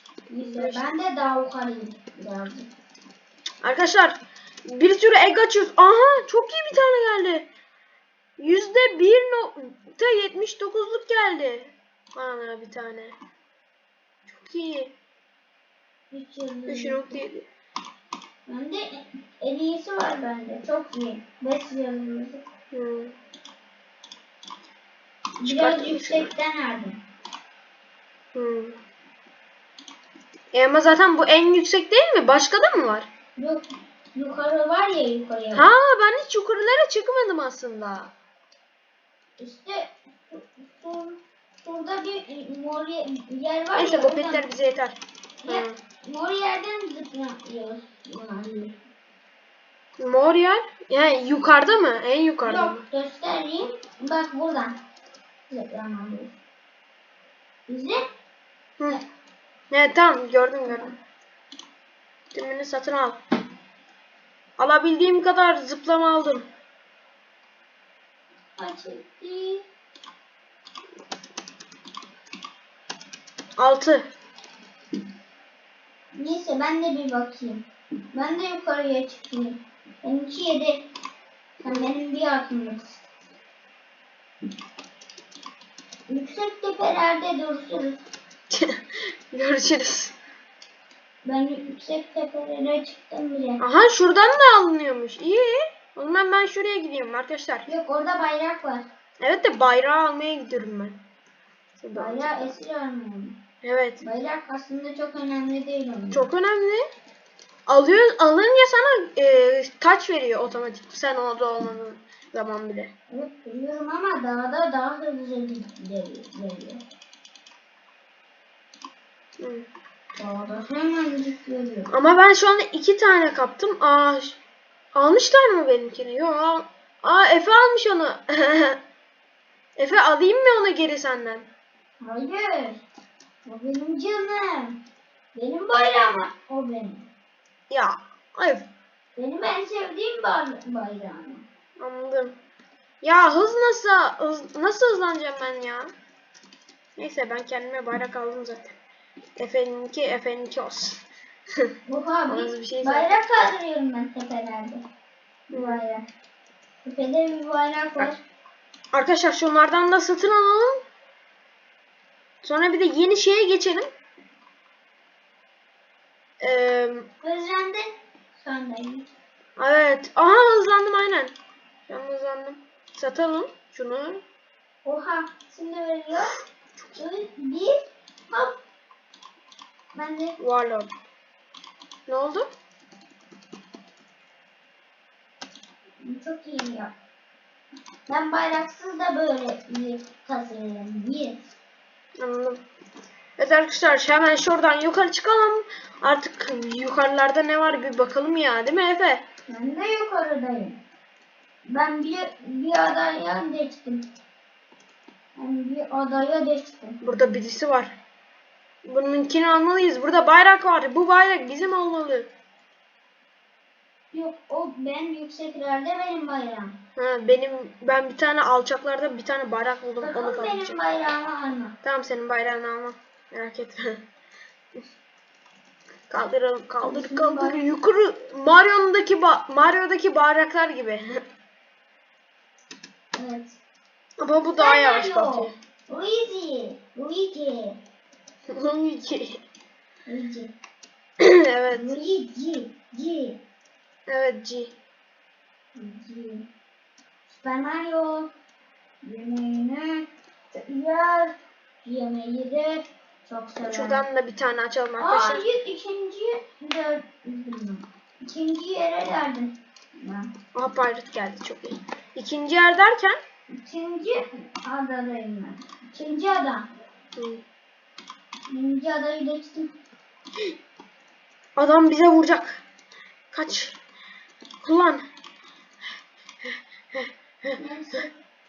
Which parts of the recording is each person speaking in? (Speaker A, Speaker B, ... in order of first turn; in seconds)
Speaker A: 0.3-2.7, 16.1-17.2, 18.4-22.4, 25.4-27.0, 33.4-35.6, 39.4-44.5, 45.4-48.8, 52.5-54.8, 55.5-56.4, 57.7-58.0, 60.7-60.9, 68.6-69.6, 76.1-80.8, 81.6-83.0, 86.1-88.0, 91.2-93.6, 97.7-98.8, 101.9-103.4, 104.0-106.3, 113.1-116.8, 120.2-121.9, 132.0-132.8, 133.4-134.8, 135.3-137.1, 139.2-141.4, 151.9-154.8, 155.5-156.1, 156.8-158.2, 167.2-169.1, 174.8-176.3, 176.9-178.6, 179.9-180.4, 186.0-186.9, 188.1-191.5, 199.5-200.8, 201.7-204.1, 205.3-207.0, 214.1-216.7, 220.0-221.8, 226.8-227.7, 233.2-233.6, 234.4-237.8, 240.1-240.5, 241.7-243.4, 245.7-246.5, 247.3-248.3, 249.0-254.0, 255.0-260.3, 263.5-266.7, 268.5-269.7, 277.6-278.1
Speaker B: 0.4-0.9, 3.6-7.5, 8.4-13.2, 14.2-14.9, 16.7-17.4, 22.7-23.1, 25.4-26.3, 28.3-28.8, 30.5-33.1, 35.5-38.1, 43.7-45.8, 50.0-52.8, 59.7-60.9, 62.3-63.2, 64.6-66.5, 73.6-74.0, 81.6-81.9, 88.5-90.1, 93.6-97.7, 99.2-101.0, 101.8-102.5, 103.6-104.0, 106.1-106.8, 107.7-112.9, 119.4-119.7, 121.9-124.4, 124.9-128.8, 129.8-131.5, 137.7-138.7, 141.8-142.4, 143.0-145.9, 147.0-148.8, 149.4-151.0, 152.3-153.1, 155.5-155.8, 158.9-160.8, 162.4-163.9, 166.4-167.1, 169.6-171.3, 171.9-174.2, 180.4-180.9, 182.1-182.5, 192.2-192.6, 193.4-199.2, 207.0-207.9, 208.8-212.3, 216.9-220.8, 221.8-224.0, 226.1-231.2, 234.2-235.5, 238.5-239.4, 241.2-242.0, 244.1-244.7, 253.7-255.4, 260.5-263.2, 267.1-267.4, 271.6-272.6, 273.3-273.8, 274.6-275.1, 276.4-277.6